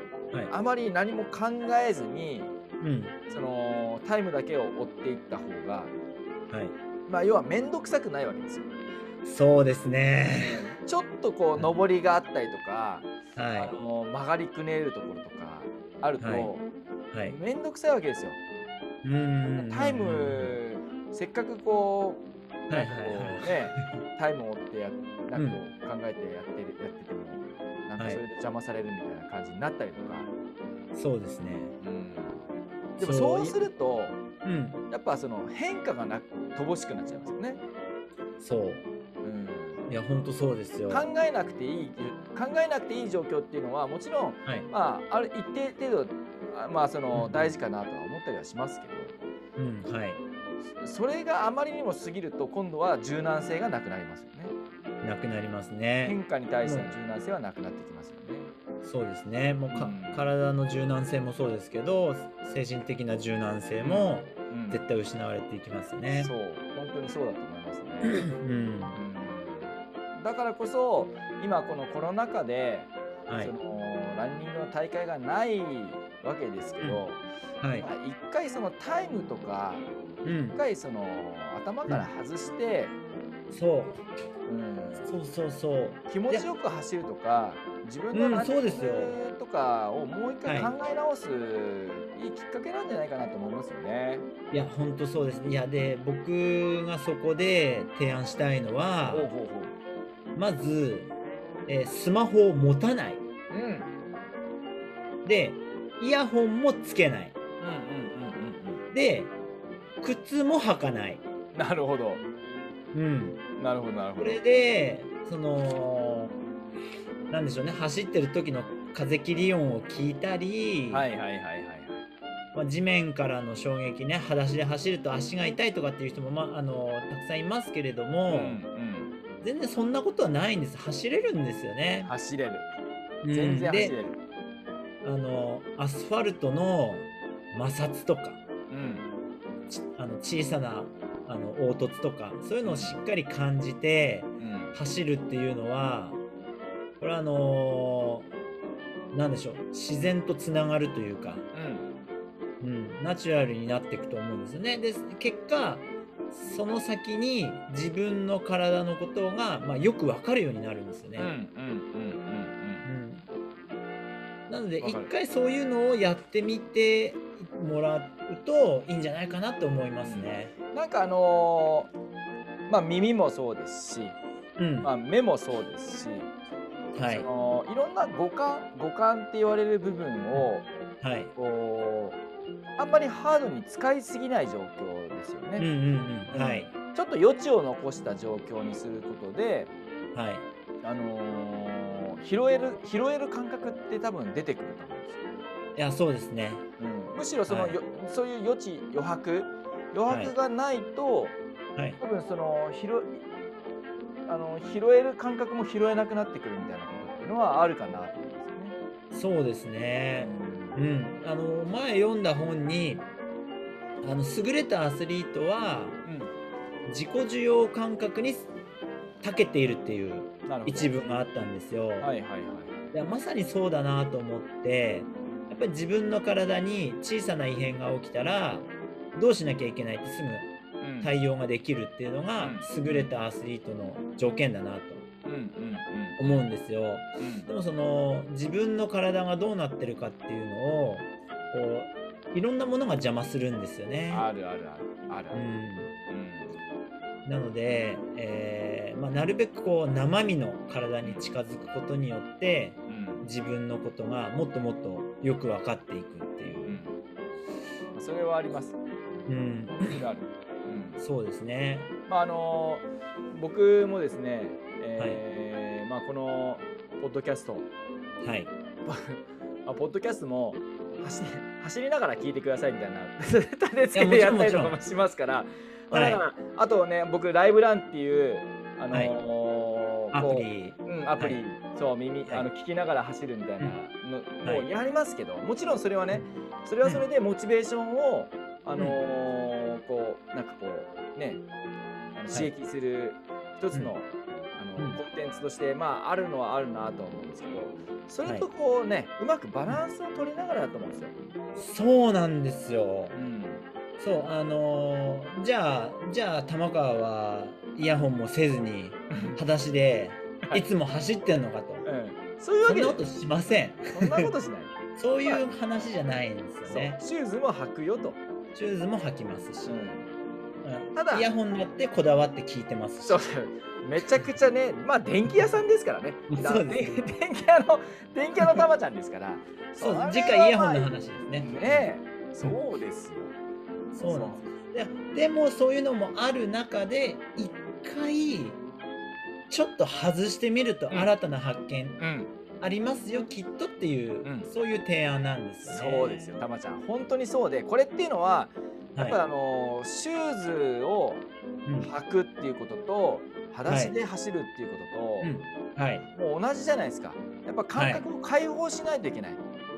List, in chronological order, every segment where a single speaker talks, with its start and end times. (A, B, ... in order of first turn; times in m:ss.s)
0:00.5-0:02.5 A
0:02.8-0:03.2 B
0:03.3-0:05.9 A
0:07.1-0:08.7 A
0:09.2-0:10.6 B
0:10.4-0:16.7 A
0:13.4-0:13.8 B
0:16.2-0:16.5 B
0:17.1-0:17.4 B
0:17.3-0:18.4 A
0:19.0-0:20.6 B
0:19.6-0:30.3 A
0:22.7-0:23.8 B
0:25.4-0:25.6 B
0:28.0-0:28.2 B
0:30.9-0:31.7 B
0:31.8-0:32.4 A
0:33.0-0:33.6 B
0:33.0-0:34.2 A
0:34.4-0:34.8 B
0:34.9-0:37.6 A
0:38.4-0:38.9 B
0:39.2-0:39.8 A
0:39.9-0:41.1 B
0:40.9-0:49.1 A
0:47.1-0:47.6 B
0:49.6-0:50.2 B
0:50.8-0:54.5 A
0:55.0-0:56.9 B
0:56.0-0:58.5 A
0:58.8-1:06.3 B
0:59.7-1:00.3 A
1:03.8-1:04.8 A
1:06.2-1:08.3 A
1:08.0-1:09.0 B
1:08.9-1:17.2 A
1:13.3-1:13.5 B
1:17.6-1:17.9 B
1:17.8-1:23.0 A
1:20.2-1:20.6 B
1:23.5-1:24.0 B
1:24.5-1:25.1 A
1:25.0-1:26.5 B
1:26.1-1:34.3 A
1:28.1-1:29.2 B
1:30.5-1:30.7 B
1:34.5-1:39.3 B
1:39.1-1:39.8 A
1:40.4-1:41.1 B
1:41.7-1:43.2 B
1:43.5-1:43.9 A
1:45.2-1:47.4 B
1:47.6-1:48.8 A
1:48.9-1:49.3 B
1:50.0-1:51.2 B
1:51.5-1:52.2 A
1:52.9-1:53.4 B
1:53.6-1:54.4 A
1:54.2-1:56.4 B
1:57.3-2:01.1 B
2:00.9-2:02.0 A
2:02.5-2:08.6 B
2:08.3-2:09.2 A
2:09.4-2:12.1 B
2:12.0-2:12.7 A
2:13.2-2:14.0 B
2:13.3-2:14.2 A
2:15.0-2:18.4 B
2:18.7-2:19.1 A
2:19.7-2:26.2 B
2:22.6-2:23.0 A
2:24.4-2:24.8 A
2:27.0-2:28.3 B
2:29.1-2:31.4 B
2:31.5-2:31.9 A
2:32.6-2:41.3 B
2:41.2-2:42.9 A
2:42.8-2:43.3 B
2:44.5-2:50.5 B
2:44.8-2:45.1 A
2:50.0-2:51.9 A
2:52.7-2:54.2 A
2:54.6-2:54.9 B
2:54.8-2:56.3 A
2:57.0-2:57.3 B
2:57.0-3:00.7 A
3:01.0-3:01.3 B
3:01.4-3:02.2 A
3:02.8-3:05.7 A
3:05.6-3:06.7 B
3:06.3-3:09.7 A
3:10.2-3:10.4 B
3:10.8-3:15.2 A
3:15.8-3:16.6 B
3:16.8-3:21.4 A
3:17.5-3:17.8 B
3:20.1-3:20.3 B
3:21.8-3:22.0 B
3:22.0-3:23.2 A
3:24.3-3:28.8 A
3:29.1-3:33.1 B
3:30.2-3:30.8 A
3:34.0-3:36.0 B
3:36.0-3:36.3 A
3:36.9-3:38.5 B
3:39.2-3:42.1 B
3:40.5-3:40.9 A
3:42.0-3:42.9 A
3:42.9-3:50.5 B
3:50.8-3:51.1 A
3:51.0-3:55.0 B
3:52.4-3:53.1 A
3:55.2-3:56.2 A
3:56.2-4:04.3 B
3:57.2-3:57.5 A
4:04.1-4:05.5 A
4:05.3-4:05.9 B
4:06.1-4:06.5 A
4:07.2-4:16.8 B
4:11.0-4:11.3 A
4:12.9-4:13.3 A
4:16.6-4:17.0 A
4:18.0-4:18.8 A
4:19.3-4:20.0 B
4:19.7-4:21.0 A
4:21.0-4:21.9 B
4:22.1-4:27.7 A
4:28.2-4:28.5 B
4:28.9-4:51.4 A
4:33.9-4:34.8 B
4:35.9-4:36.2 B
4:40.1-4:41.4 B
4:52.2-5:01.1 A
5:01.6-5:03.2 B
5:03.1-5:03.6 A
5:04.0-5:11.9 B
5:09.1-5:09.4 A
5:11.8-5:13.0 A
5:12.7-5:14.3 B
5:13.9-5:14.7 A
5:15.0-5:17.0 B
5:16.7-5:18.2 A
5:18.5-5:19.8 B
5:19.7-5:20.1 A
5:20.6-5:23.2 B
5:21.0-5:21.3 A
5:23.0-5:33.4 A
5:26.3-5:27.0 B
5:29.8-5:31.9 B
5:33.9-5:38.6 B
5:34.1-5:34.4 A
5:39.5-5:42.0 B
5:42.0-5:42.3 A
5:42.6-5:46.4 B
5:44.2-5:44.5 A
5:45.6-5:51.2 A
5:51.8-5:55.3 A
5:53.7-5:54.0 B
5:55.2-5:56.1 B
5:56.1-5:59.4 A
5:57.8-5:58.0 B